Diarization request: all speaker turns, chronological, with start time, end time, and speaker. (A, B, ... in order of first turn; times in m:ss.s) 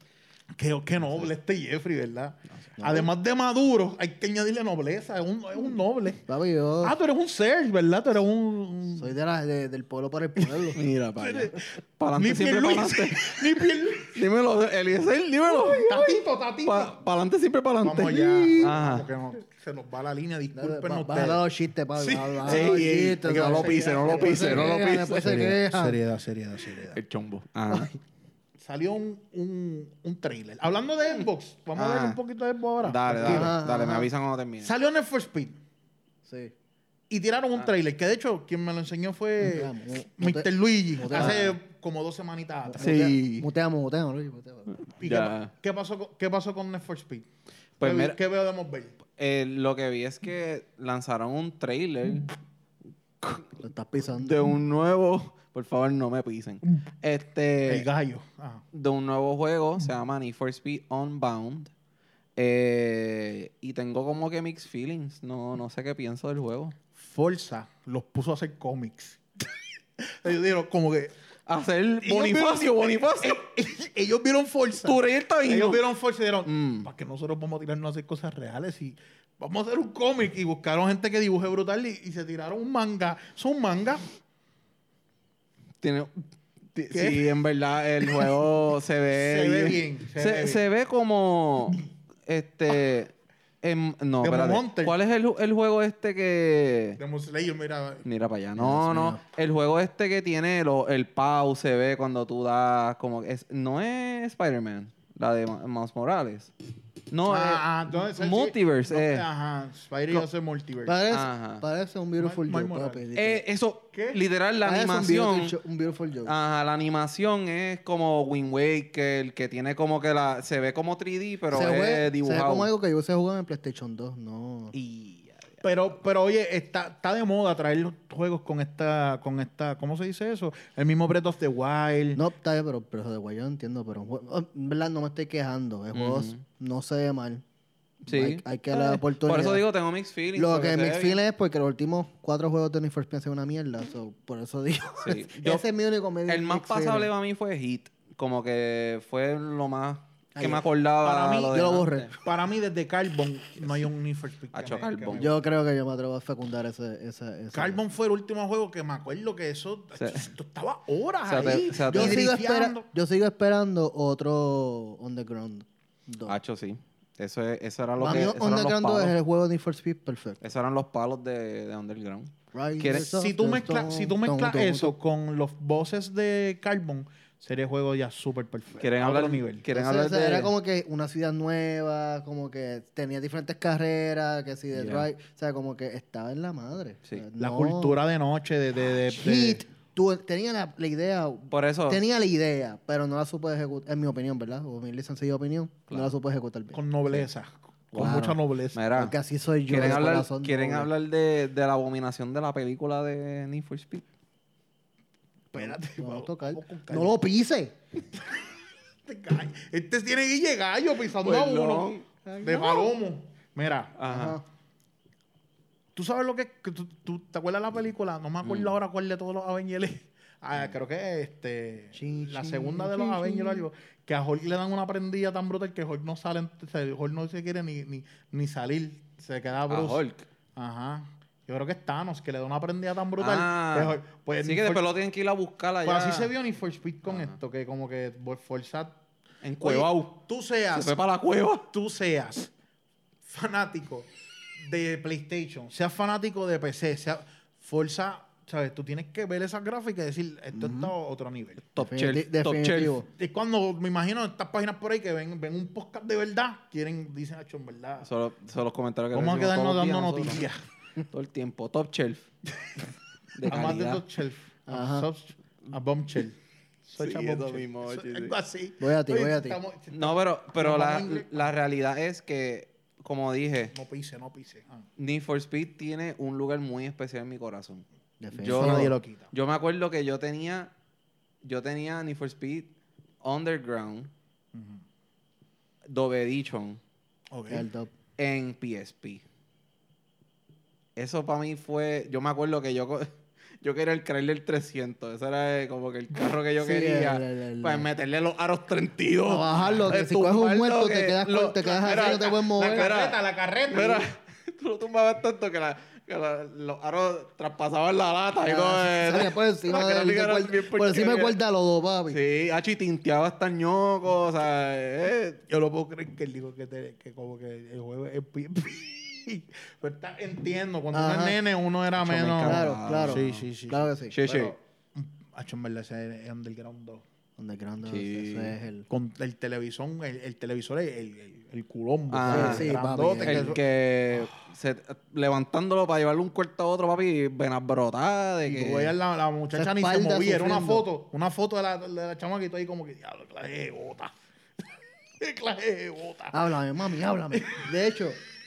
0:00.5-0:06.2 A
0:02.8-0:03.1 B
0:06.3-0:07.0 B
0:06.8-0:09.1 A
0:08.9-0:10.8 B
0:10.7-0:19.1 C
0:11.2-0:14.2 A
0:15.7-0:16.9 A
0:17.8-0:21.4 A
0:18.1-0:18.8 B
0:20.5-0:26.0 B
0:22.0-0:27.0 A
0:22.4-0:25.6 C
0:26.9-0:27.9 C
0:28.6-0:33.6 A
0:31.8-0:32.2 C
0:32.8-0:34.7 C
0:33.2-0:34.1 B
0:34.6-0:35.6 A
0:36.2-0:36.5 B
0:37.1-0:43.1 A
0:39.4-0:41.5 B
0:41.1-0:41.6 C
0:42.7-0:44.7 B
0:42.8-0:43.5 C
0:44.7-0:45.5 C
0:45.0-0:47.3 A
0:47.8-0:48.2 C
0:47.8-0:49.0 A
0:49.1-0:52.3 C
0:53.6-0:54.5 B
0:54.1-0:57.9 C
0:57.7-0:58.6 A
0:58.7-1:01.7 C
1:02.4-1:06.8 C
1:06.9-1:09.2 A
1:10.0-1:11.1 A
1:11.5-1:13.4 C
1:12.0-1:24.0 A
1:14.8-1:15.8 C
1:16.4-1:16.9 C
1:25.8-1:26.2 C
1:26.7-1:37.0 C
1:26.9-1:27.4 A
1:28.0-1:28.3 A
1:29.1-1:30.6 A
1:34.2-1:35.0 A
1:37.0-1:38.0 A
1:38.0-1:46.5 C
1:38.6-1:39.2 B
1:47.1-1:49.2 C
1:47.2-1:51.0 A
1:50.8-1:53.4 B
1:51.1-1:51.6 C
1:52.2-1:53.0 A
1:53.1-1:55.6 C
1:53.9-1:54.2 A
1:54.6-1:56.3 B
1:56.2-2:02.7 C
2:01.5-2:04.8 B
2:04.7-2:05.6 C
2:05.6-2:12.2 A
2:12.1-2:17.4 B
2:15.9-2:16.4 C
2:18.0-2:19.6 B
2:18.0-2:21.2 C
2:20.3-2:27.1 B
2:25.0-2:25.6 C
2:26.3-2:32.1 C
2:30.3-2:30.7 B
2:31.0-2:31.6 A
2:31.5-2:32.1 B
2:32.2-2:35.4 A
2:34.5-2:35.3 C
2:35.1-2:37.8 B
2:37.5-2:42.9 A
2:40.0-2:40.3 C
2:41.2-2:42.2 C
2:41.8-2:46.4 B
2:46.3-2:49.1 C
2:48.0-2:50.4 B
2:50.4-2:53.1 C
2:52.5-2:54.9 B
2:52.9-2:59.6 A
2:58.8-3:00.5 C
2:59.7-3:08.0 B
3:04.7-3:05.1 C
3:07.4-3:09.6 A
3:08.9-3:16.8 B
3:11.5-3:12.0 C
3:15.9-3:16.1 C
3:16.7-3:18.8 A
3:17.9-3:19.1 C
3:17.9-3:18.4 B
3:18.9-3:20.9 B
3:19.7-3:24.0 C
3:25.5-3:27.2 A
3:25.5-3:27.7 B
3:29.0-3:34.0 A
3:31.2-3:32.0 C
3:32.2-3:32.9 B
3:34.0-3:34.4 C
3:34.1-3:34.4 B
3:35.9-3:50.0 A
3:38.4-3:38.7 C
3:41.9-3:43.7 B
3:49.7-3:50.3 C
3:50.6-3:54.8 A
3:53.2-3:56.3 C
3:55.8-3:59.0 A
3:57.1-3:57.3 C
3:59.4-4:00.2 C
3:59.6-4:01.0 A
4:00.7-4:01.6 C
4:01.6-4:02.5 A
4:03.2-4:04.1 A
4:04.6-4:11.7 A
4:10.6-4:10.9 B
4:11.7-4:13.0 C
4:11.8-4:13.1 B
4:13.2-4:18.1 A
4:18.0-4:20.4 C
4:19.1-4:20.6 A
4:21.1-4:22.3 C
4:23.3-4:24.0 C
4:23.4-4:31.5 A
4:24.7-4:25.1 B
4:27.0-4:28.3 C
4:28.8-4:29.6 B
4:29.9-4:33.7 C
4:33.7-4:34.9 A
4:35.0-4:40.7 C
4:38.2-4:38.9 B
4:38.4-4:39.3 A
4:41.4-4:42.7 C
4:43.2-4:44.1 C
4:44.5-4:44.8 A
4:45.9-4:46.8 C
4:47.3-4:47.7 A
4:47.5-4:47.9 B
4:48.2-4:49.2 C
4:51.0-5:11.4 C
4:56.6-4:57.9 B
4:59.2-5:02.9 B
4:59.6-4:59.8 A
5:01.7-5:04.1 A
5:08.4-5:12.2 B
5:12.1-5:15.4 C
5:15.5-5:27.0 A
5:20.9-5:21.4 B
5:22.0-5:23.4 C
5:22.4-5:24.2 B
5:24.1-5:24.5 C
5:27.4-5:28.9 B
5:27.8-5:28.5 C
5:28.9-5:33.6 A
5:32.1-5:38.9 C
5:32.3-5:33.6 B
5:38.4-5:44.1 A
5:39.5-5:40.8 B
5:45.2-5:46.5 A
5:46.3-5:48.2 B
5:47.3-5:47.7 A